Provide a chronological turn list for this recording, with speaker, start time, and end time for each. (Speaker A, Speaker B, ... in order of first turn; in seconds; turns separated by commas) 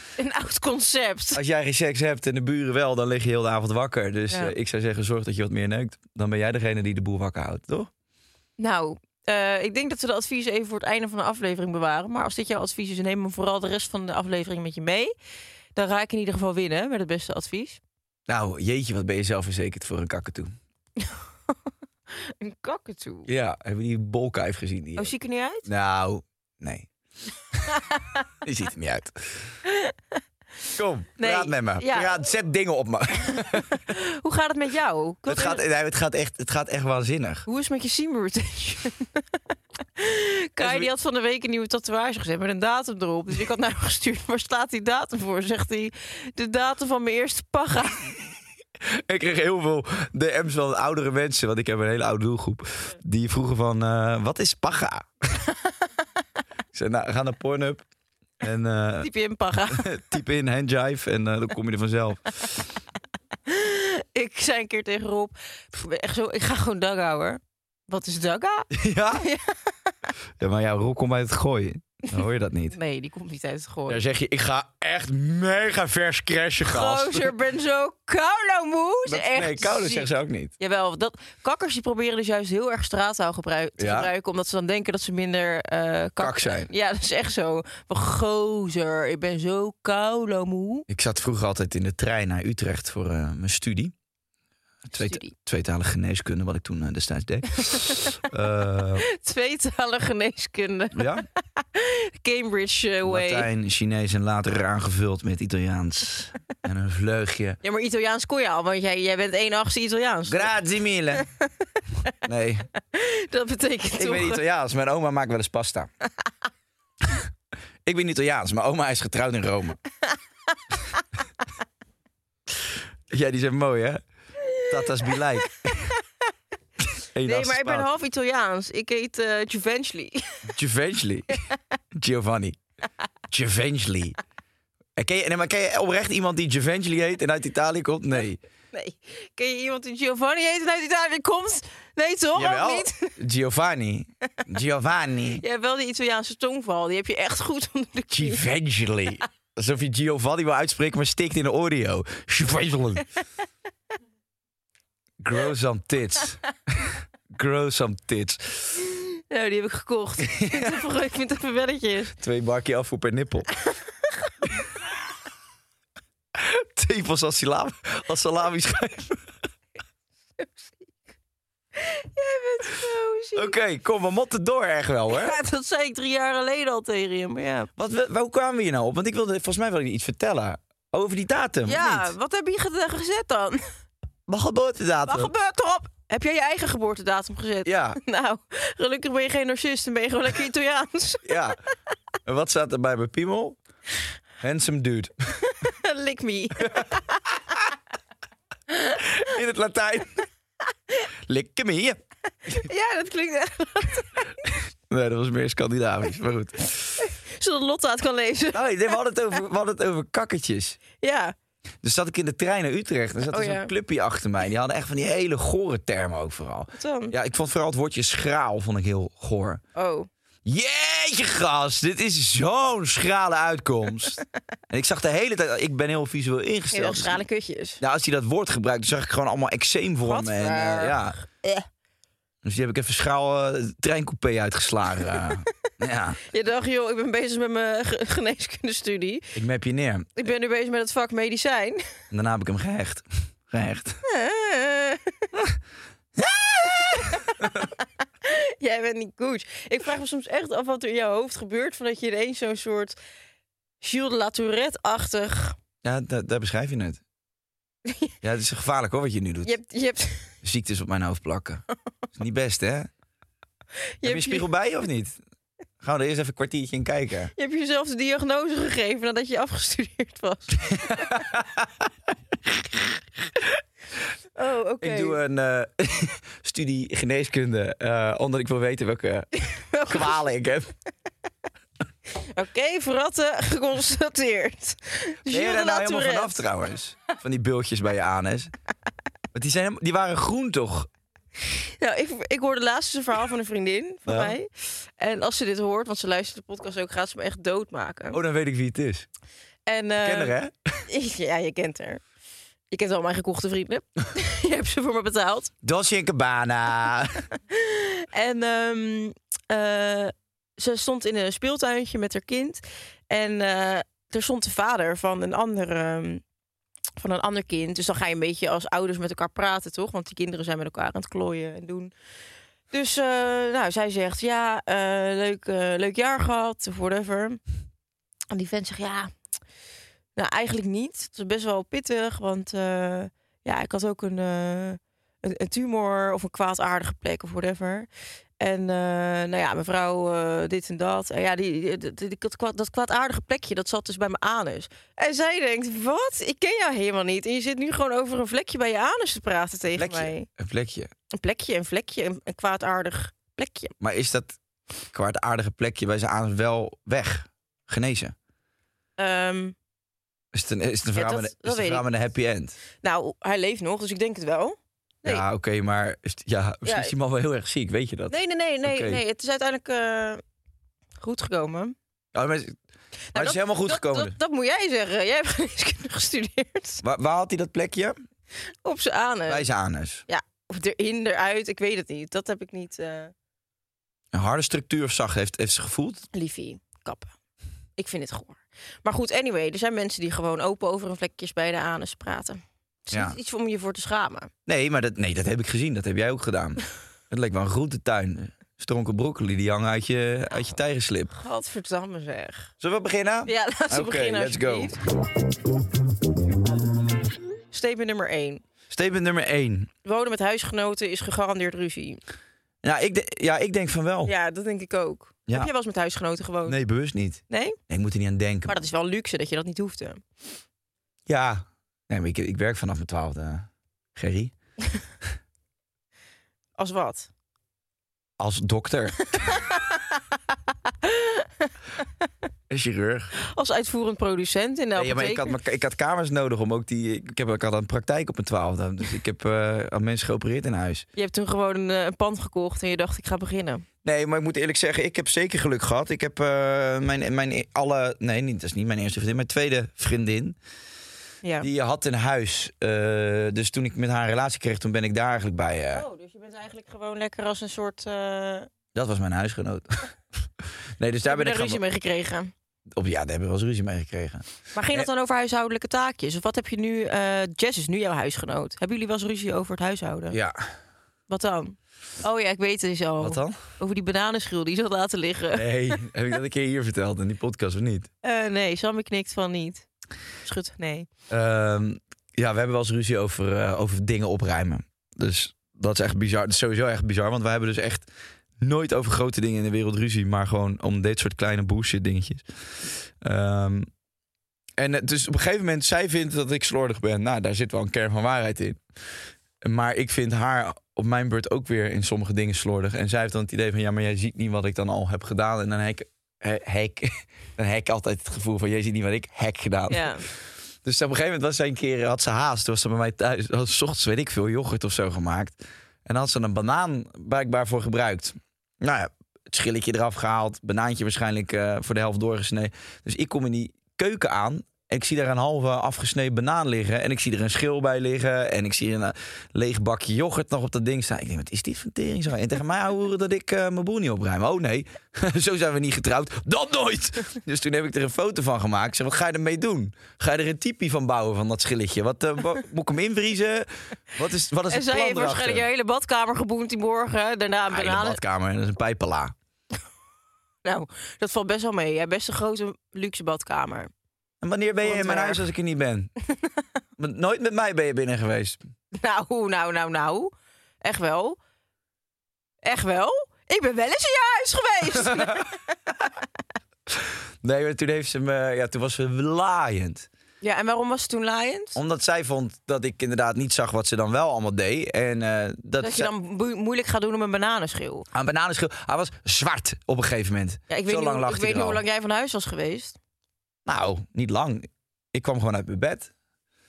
Speaker A: 0.2-1.4, Speaker B: 1.3-7.9, Speaker A: 8.6-15.1, Speaker A: 15.7-17.8, Speaker B: 18.3-20.5, Speaker A: 22.2-23.3, Speaker B: 23.3-25.1, Speaker A: 24.9-25.6, Speaker B: 25.6-26.9, Speaker A: 27.7-28.2, Speaker B: 28.4-29.5, Speaker A: 29.6-30.2, Speaker B: 30.8-33.7, Speaker A: 31.2-32.1, Speaker A: 33.5-35.6, Speaker B: 35.3-37.5, Speaker A: 37.5-39.2, Speaker A: 40.0-48.1, Speaker B: 40.6-40.9, Speaker B: 48.9-55.1, Speaker B: 56.7-57.8, Speaker B: 58.4-59.1, Speaker A: 59.0-59.9, Speaker B: 59.7-62.6, Speaker A: 63.5-69.6, Speaker B: 68.7-69.2, Speaker B: 70.4-72.8, Speaker A: 72.7-74.0, Speaker B: 73.9-77.3, Speaker A: 76.6-90.8, Speaker B: 79.0-80.5, Speaker B: 83.8-84.1, Speaker B: 86.2-86.7, Speaker B: 90.9-93.9, Speaker B: 94.9-99.0, Speaker A: 94.9-95.3, Speaker A: 99.1-103.5, Speaker B: 100.9-101.2, Speaker B: 103.0-107.6, Speaker A: 107.6-110.5, Speaker B: 110.3-111.2, Speaker B: 112.2-112.7, Speaker A: 112.9-114.4, Speaker B: 113.9-115.9, Speaker B: 117.8-119.8, Speaker B: 123.1-124.0, Speaker A: 124.5-125.1, Speaker B: 124.7-125.9, Speaker B: 127.0-127.9, Speaker A: 127.2-130.4, Speaker B: 130.5-131.4, Speaker B: 131.9-132.6, Speaker B: 133.3-134.2, Speaker B: 135.0-138.4, Speaker A: 138.7-143.1, Speaker B: 142.3-145.4, Speaker A: 145.4-148.4, Speaker B: 148.1-153.0, Speaker B: 155.2-158.7, Speaker A: 158.9-162.1, Speaker B: 160.4-160.8, Speaker B: 162.2-163.5, Speaker B: 166.3-169.2, Speaker A: 171.8-173.6, Speaker B: 173.3-175.3, Speaker A: 175.1-177.7, Speaker B: 177.8-182.1, Speaker A: 181.7-183.6, Speaker B: 184.3-185.3, Speaker A: 185.1-191.4, Speaker B: 187.7-188.0, Speaker B: 191.2-191.6, Speaker B: 192.2-193.6, Speaker B: 194.4-195.5, Speaker A: 195.6-197.2, Speaker B: 196.6-196.9, Speaker A: 198.7-199.0, Speaker B: 199.0-200.2, Speaker B: 201.2-202.0, Speaker A: 202.5-204.3, Speaker B: 204.9-207.0, Speaker A: 207.0-208.6, Speaker B: 208.5-210.8, Speaker A: 211.0-211.3, Speaker B: 211.8-219.6, Speaker A: 213.3-213.7, Speaker A: 216.7-217.1, Speaker A: 219.7-220.1, Speaker B: 220.4-227.2, Speaker A: 226.7-227.8, Speaker B: 227.8-231.2, Speaker A: 230.0-231.6, Speaker B: 232.4-236.2, Speaker A: 236.3-239.3, Speaker B: 239.3-240.2, Speaker A: 240.2-241.8, Speaker B: 242.1-244.0, Speaker A: 244.1-245.2, Speaker B: 246.2-247.6, Speaker A: 246.6-247.7, Speaker A: 248.2-253.0, Speaker A: 253.8-255.6, Speaker B: 255.8-257.0, Speaker A: 257.9-258.1, Speaker B: 258.2-259.5, Speaker A: 259.4-260.3, Speaker B: 260.4-261.6, Speaker B: 262.1-262.9, Speaker A: 264.0-264.5, Speaker B: 264.0-265.2, Speaker B: 265.8-267.3, Speaker A: 267.4-271.2, Speaker B: 270.6-271.9, Speaker B: 272.4-273.6, Speaker A: 274.4-275.2, Speaker B: 274.8-279.3, Speaker A: 279.4-280.2, Speaker B: 279.9-280.7, Speaker A: 282.3-286.4, Speaker B: 285.3-288.5, Speaker B: 289.3-290.9, Speaker A: 291.8-298.2, Speaker B: 294.1-294.3, Speaker B: 298.1-299.1, Speaker A: 299.7-300.3, Speaker B: 300.0-300.7, Speaker A: 300.9-302.0, Speaker A: 302.7-305.5, Speaker B: 305.6-307.2, Speaker A: 307.5-316.2, Speaker A: 317.0-321.9, Speaker A: 322.7-327.4, Speaker A: 328.3-329.1, Speaker A: 330.1-337.9, Speaker A: 338.4-350.3, Speaker B: 349.8-350.9, Speaker A: 351.1-353.7, Speaker B: 353.8-354.4, Speaker B: 354.9-358.1, Speaker A: 359.0-359.5, Speaker B: 360.3-362.6, Speaker A: 360.9-361.8, Speaker A: 362.8-365.2, Speaker B: 365.0-369.0, Speaker A: 366.6-366.9, Speaker A: 368.1-370.2, Speaker A: 371.0-371.7, Speaker B: 372.1-372.6, Speaker A: 373.1-376.8, Speaker B: 373.1-374.1, Speaker B: 376.8-378.0, Speaker A: 378.6-379.5, Speaker B: 379.3-380.0, Speaker A: 380.1-383.1, Speaker B: 384.1-386.1, Speaker A: 386.1-387.1, Speaker A: 387.8-394.3, Speaker B: 392.9-393.1, Speaker B: 394.4-401.1, Speaker A: 401.1-402.5, Speaker B: 402.6-404.7, Speaker A: 403.2-404.8, Speaker A: 407.5-408.4, Speaker B: 408.7-409.7, Speaker A: 409.8-412.0, Speaker B: 412.6-414.1, Speaker A: 414.0-416.6, Speaker B: 416.4-418.6, Speaker A: 417.3-417.6, Speaker A: 418.5-420.0, Speaker B: 421.1-424.3, Speaker A: 426.6-427.1, Speaker B: 428.2-429.1, Speaker A: 429.2-429.8, Speaker A: 430.8-431.8, Speaker B: 432.5-433.1, Speaker A: 433.3-435.3, Speaker B: 434.8-440.9, Speaker A: 440.9-443.6, Speaker B: 443.8-450.4, Speaker A: 451.2-451.5, Speaker B: 451.4-455.8, Speaker A: 455.7-458.5, Speaker B: 458.7-459.9, Speaker B: 460.8-461.6, Speaker A: 461.1-462.3, Speaker B: 462.7-464.9, Speaker A: 464.5-470.2, Speaker B: 470.1-470.5, Speaker A: 471.1-475.8, Speaker B: 473.0-473.4, Speaker B: 475.3-477.9, Speaker A: 478.0-479.7, Speaker A: 480.2-480.9, Speaker B: 481.1-487.9, Speaker B: 488.4-493.7, Speaker B: 494.6-498.6, Speaker B: 499.4-545.5, Speaker A: 509.7-510.0, Speaker A: 544.5-548.0, Speaker B: 547.5-549.1, Speaker A: 550.4-553.7, Speaker B: 554.2-555.9, Speaker A: 554.6-555.2, Speaker B: 556.8-558.4, Speaker A: 558.7-561.2, Speaker A: 562.4-565.3, Speaker B: 564.8-565.2, Speaker B: 566.7-569.9, Speaker A: 570.2-571.6, Speaker B: 571.5-575.9, Speaker A: 575.6-577.9, Speaker B: 577.9-581.6, Speaker A: 580.5-582.8, Speaker B: 583.5-585.9